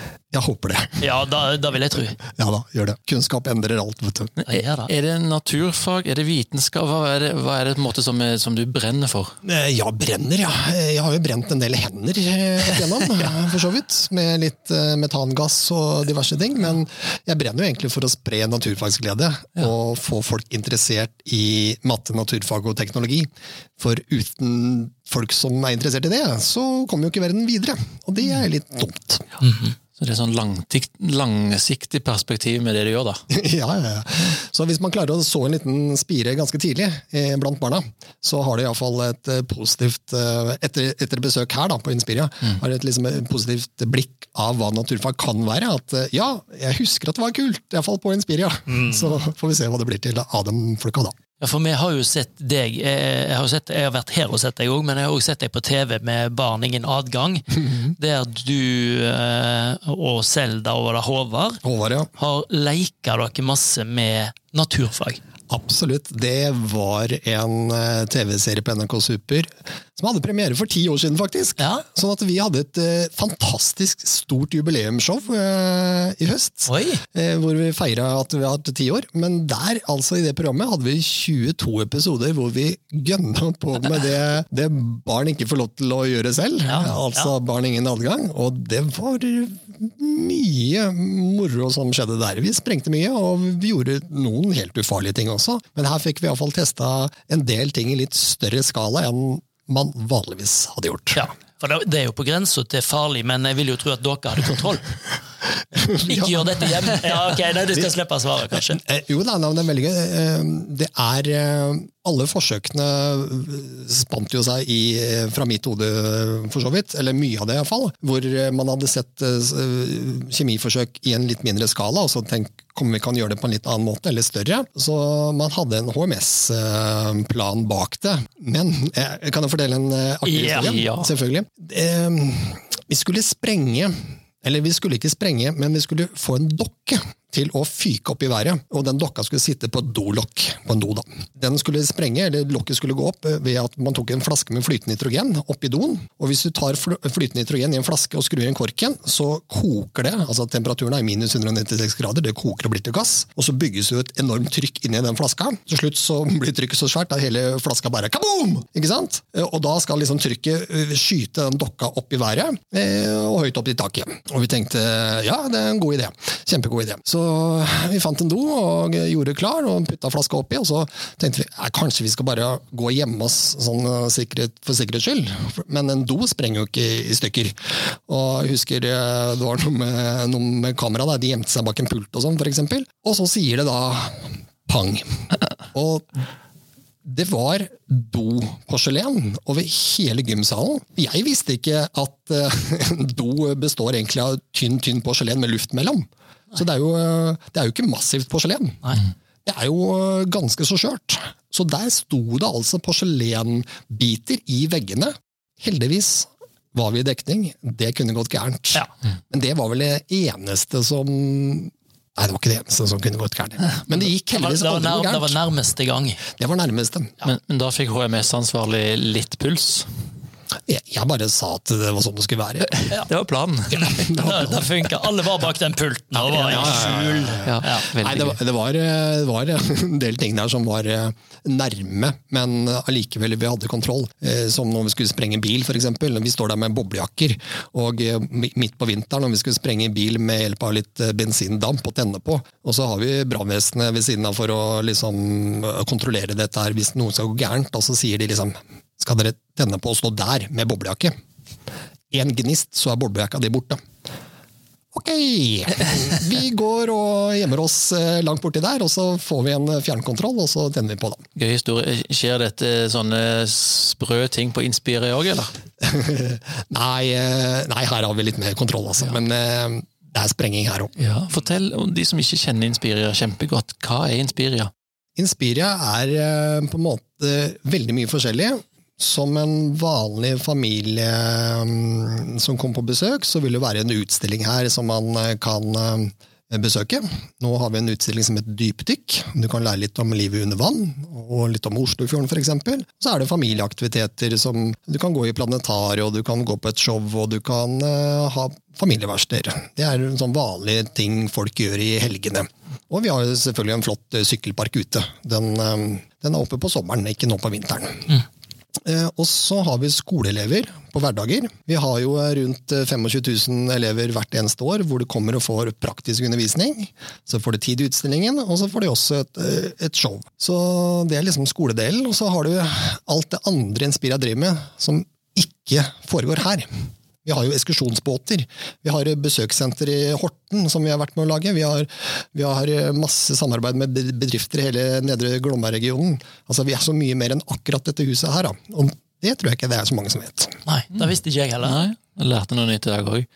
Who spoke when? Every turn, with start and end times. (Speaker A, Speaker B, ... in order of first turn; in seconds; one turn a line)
Speaker A: 0.3-1.0
Speaker B: 1.0-2.2
Speaker A: 2.3-4.3
Speaker C: 4.4-9.3
Speaker B: 4.5-4.9
Speaker A: 9.4-29.2
Speaker B: 29.4-29.7
Speaker C: 30.0-33.2
Speaker A: 33.3-51.1
Speaker B: 48.7-49.1
Speaker B: 51.4-61.6
Speaker A: 61.6-62.1
Speaker B: 62.1-65.2
Speaker A: 65.5-101.2
Speaker B: 71.6-71.8
Speaker B: 76.7-77.0
Speaker B: 86.7-87.3
Speaker B: 101.1-104.9
Speaker A: 105.7-107.0
Speaker B: 105.8-108.8
Speaker A: 108.7-186.1
Speaker C: 130.3-131.1
Speaker A: 187.0-198.9
Speaker A: 199.4-215.4
Speaker B: 214.3-216.2
Speaker A: 216.4-217.2
Speaker C: 217.2-219.9
Speaker A: 220.7-222.8
Speaker C: 222.8-223.9
Speaker B: 223.7-227.9
Speaker A: 223.8-224.7
Speaker A: 226.1-251.1
Speaker C: 227.4-228.4
Speaker A: 252.1-253.8
Speaker A: 254.9-261.2
Speaker C: 261.4-265.5
Speaker A: 265.8-270.9
Speaker C: 271.0-274.7
Speaker A: 275.2-308.2
Speaker A: 308.8-326.7
Speaker A: 327.2-340.6
Speaker B: 340.6-341.8
Speaker C: 341.6-343.3